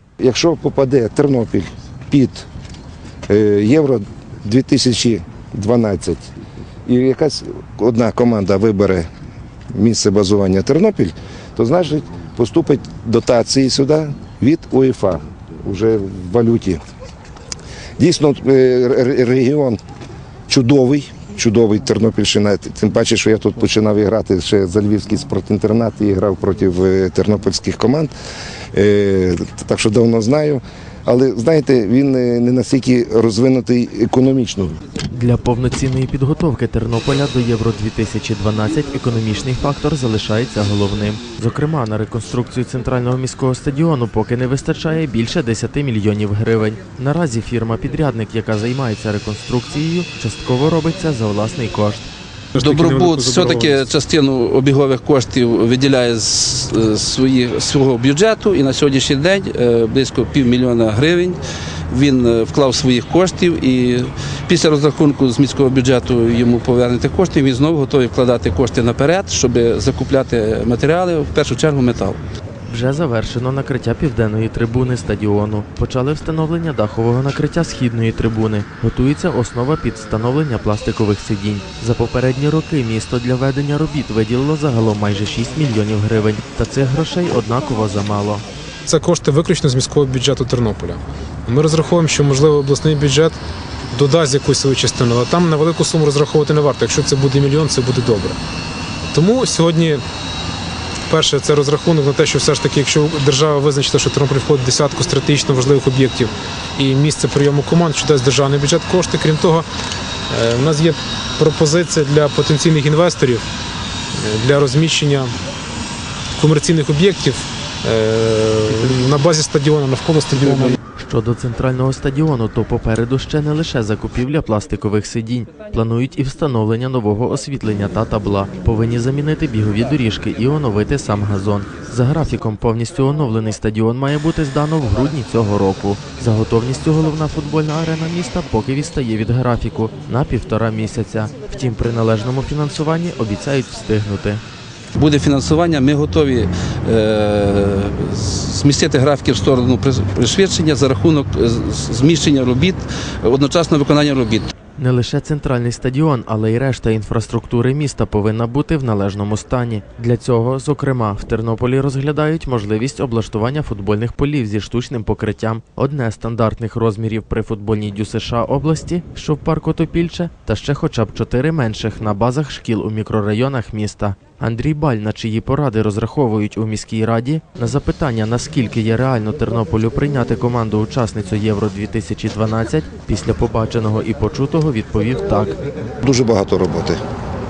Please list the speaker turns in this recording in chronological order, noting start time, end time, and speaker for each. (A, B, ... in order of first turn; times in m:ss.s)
0:00.2-0:02.5 A
0:03.3-0:06.3 A
0:06.9-0:09.1 A
0:09.7-0:16.8 A
0:18.0-0:19.8 A
0:20.5-0:28.1 A
0:28.7-0:34.8 A
0:35.1-0:52.1 B
0:52.6-0:53.8 C
0:52.6-1:01.4 D
1:01.9-1:12.2 D
1:12.7-1:28.4 B
1:28.9-1:33.4 C
1:33.9-1:38.4 C
1:39.1-1:40.0 C
1:41.1-1:49.7 C
1:50.3-1:53.4 C
1:54.1-1:55.4 C
1:56.4-2:00.8 C
2:01.0-2:24.4 B
2:25.0-2:34.5 D
2:34.8-3:05.6 B
3:06.0-3:07.0 A